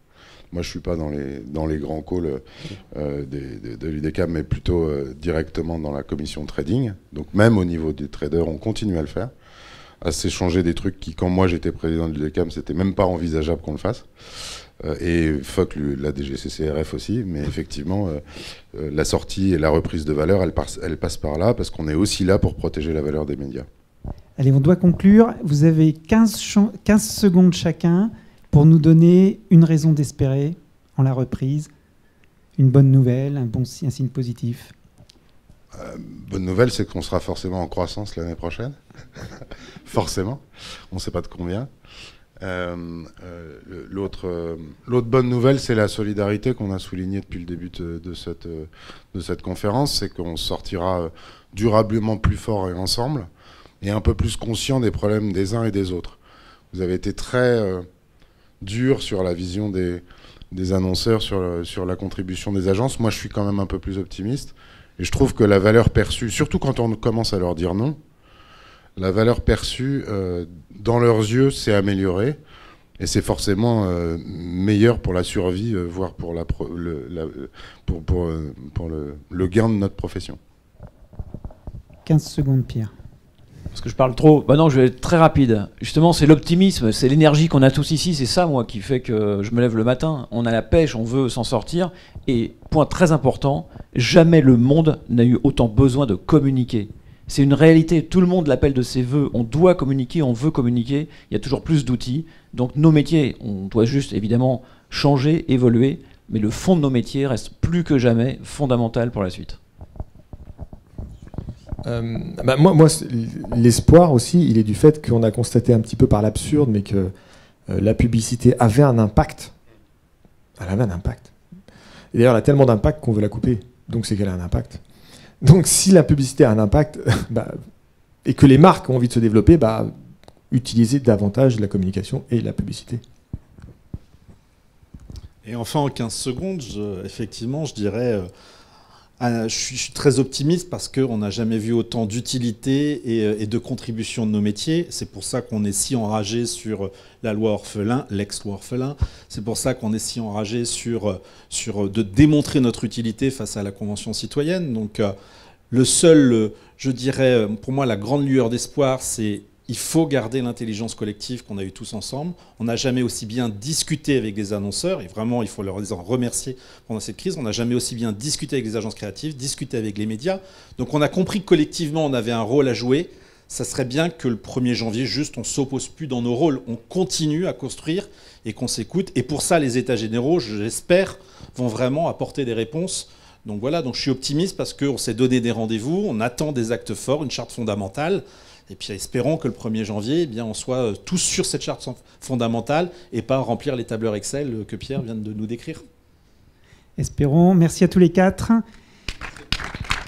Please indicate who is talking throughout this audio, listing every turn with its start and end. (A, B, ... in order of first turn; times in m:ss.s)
0:00.5-0:09.3 A
0:10.0-0:23.7 A
0:24.4-0:31.7 B
0:32.6-0:34.7 B
0:35.7-0:41.7 A
0:42.4-0:53.3 A
0:53.8-0:56.2 A
0:56.7-0:57.8 A
0:58.6-1:08.0 A
1:09.0-1:12.4 A
1:13.0-1:20.4 A
1:22.0-1:22.9 B
1:23.7-1:49.6 C
1:51.8-1:57.1 D
1:57.7-1:59.5 D
2:00.6-2:01.3 D
2:02.1-2:04.8 D
2:05.4-2:07.6 D
2:08.2-2:09.9 D
2:10.5-2:13.0 D
2:15.4-2:18.3 E
2:19.2-2:35.1 E
2:35.7-3:15.8 E
3:17.0-3:18.6 B